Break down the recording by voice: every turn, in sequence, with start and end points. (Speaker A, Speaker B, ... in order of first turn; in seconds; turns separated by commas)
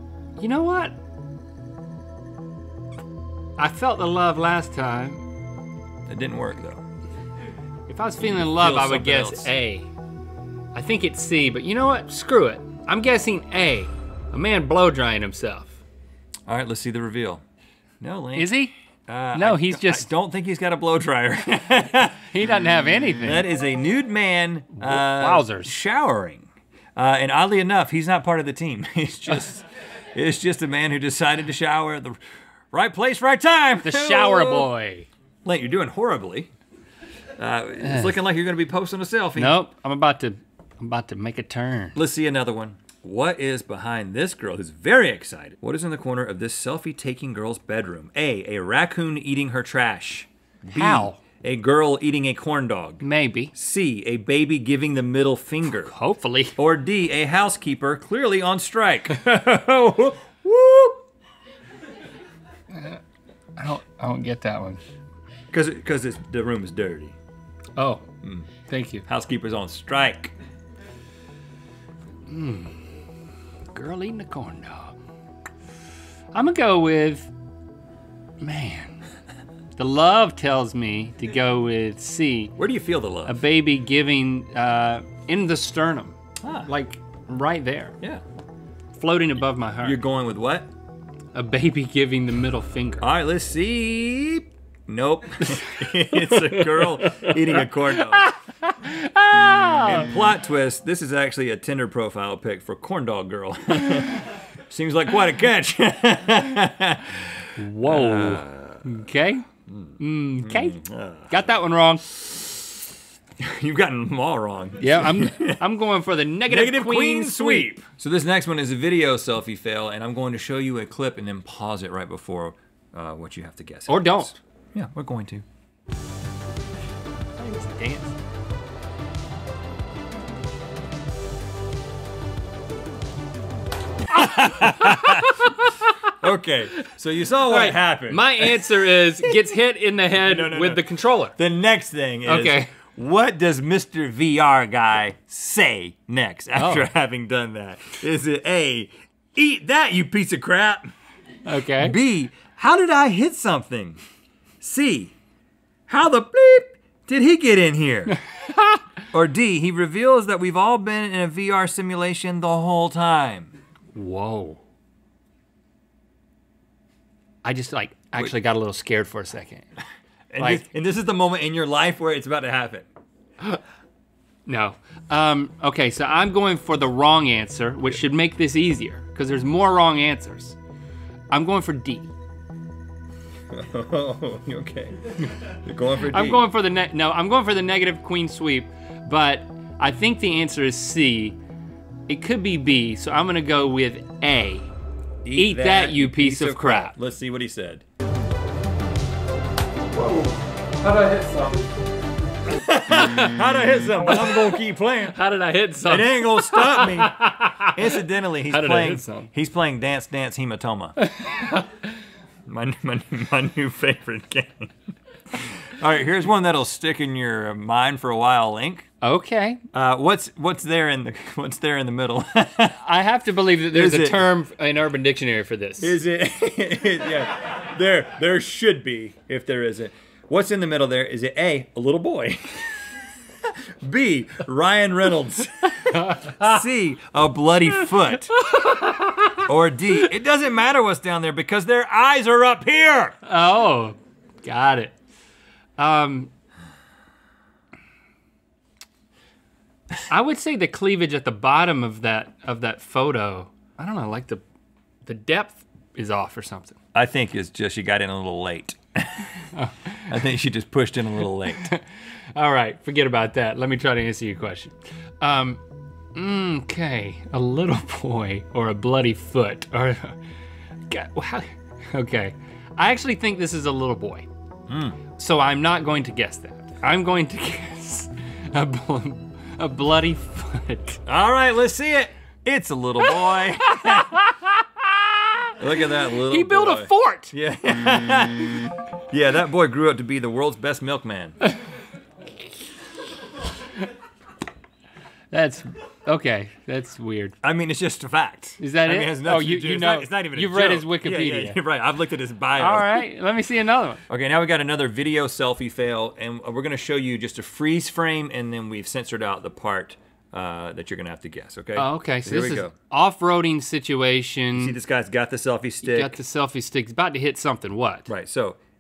Speaker A: 0.4-1.0, Speaker A: 3.6-5.2, Speaker B: 6.1-6.8, Speaker A: 7.9-9.9, Speaker B: 8.2-9.5, Speaker A: 10.7-15.8, Speaker B: 16.5-17.4, Speaker B: 18.0-18.5, Speaker A: 18.4-18.7, Speaker B: 19.1-22.3, Speaker A: 19.4-20.1, Speaker A: 22.3-23.5, Speaker B: 23.2-32.2, Speaker A: 24.8-25.7, Speaker B: 32.7-34.7, Speaker A: 33.8-35.1, Speaker B: 35.5-36.5, Speaker B: 37.4-39.6, Speaker A: 37.8-38.2, Speaker A: 39.4-42.0, Speaker B: 42.0-55.9, Speaker A: 50.7-51.2, Speaker A: 53.0-53.5, Speaker A: 55.7-56.5, Speaker B: 56.6-61.0, Speaker A: 62.7-63.0, Speaker A: 63.6-64.8, Speaker B: 65.5-67.2, Speaker A: 67.8-68.1, Speaker B: 68.2-68.5, Speaker A: 68.7-69.0, Speaker B: 69.1-70.3, Speaker A: 72.3-72.8, Speaker A: 73.7-75.0, Speaker A: 76.3-77.3, Speaker A: 78.4-79.0, Speaker A: 79.8-82.5, Speaker B: 82.6-83.4, Speaker A: 83.3-88.0, Speaker B: 86.4-86.7, Speaker A: 88.9-90.0, Speaker B: 89.8-90.7, Speaker A: 91.3-93.1, Speaker B: 93.0-98.3, Speaker A: 95.7-100.1, Speaker B: 99.8-109.0, Speaker A: 107.6-109.5, Speaker B: 109.7-111.6, Speaker A: 110.0-112.1, Speaker B: 112.1-112.5, Speaker B: 113.4-115.6, Speaker A: 114.8-117.8, Speaker B: 116.5-125.5, Speaker A: 123.9-124.4, Speaker A: 127.4-128.2, Speaker B: 134.1-135.5, Speaker A: 134.2-135.9, Speaker B: 136.2-139.1, Speaker A: 137.4-141.4, Speaker B: 140.2-140.8, Speaker B: 141.3-150.9, Speaker A: 142.3-142.7, Speaker A: 146.6-146.9, Speaker A: 151.5-152.0, Speaker B: 151.7-154.0, Speaker B: 154.6-155.2, Speaker B: 155.9-158.2, Speaker B: 159.1-163.5, Speaker A: 163.9-164.6, Speaker A: 167.4-169.7, Speaker B: 170.3-172.9, Speaker A: 170.4-170.7, Speaker A: 174.5-180.6, Speaker A: 181.3-182.1, Speaker B: 183.5-186.5, Speaker A: 186.0-191.4, Speaker A: 192.1-194.7, Speaker B: 195.2-197.8, Speaker A: 195.3-196.9, Speaker A: 200.0-201.7, Speaker B: 202.5-205.2, Speaker A: 203.0-203.3, Speaker A: 204.0-209.3, Speaker B: 205.8-211.0, Speaker A: 211.1-211.7, Speaker B: 212.5-214.7, Speaker B: 215.3-218.9, Speaker A: 219.0-219.6, Speaker B: 219.7-222.8, Speaker A: 222.8-226.0, Speaker B: 223.7-224.3, Speaker B: 225.8-232.7, Speaker B: 233.4-238.4, Speaker A: 235.9-236.6, Speaker A: 238.3-239.4, Speaker B: 239.4-243.2, Speaker A: 243.2-244.9, Speaker A: 245.8-246.3, Speaker A: 250.1-254.4, Speaker A: 255.1-256.8, Speaker B: 256.9-259.5, Speaker A: 259.5-260.2, Speaker B: 260.1-261.7, Speaker A: 261.5-261.8, Speaker A: 262.4-265.6, Speaker A: 266.1-270.2, Speaker A: 270.9-274.3, Speaker B: 274.7-275.0, Speaker A: 275.1-281.0, Speaker B: 281.1-284.2, Speaker A: 283.0-287.3, Speaker B: 285.6-291.4, Speaker A: 295.3-297.4, Speaker B: 297.4-303.0, Speaker A: 298.6-301.6, Speaker A: 302.6-304.0, Speaker B: 304.1-312.7, Speaker A: 311.8-314.8, Speaker B: 314.6-316.2, Speaker A: 315.8-318.1, Speaker B: 318.1-318.6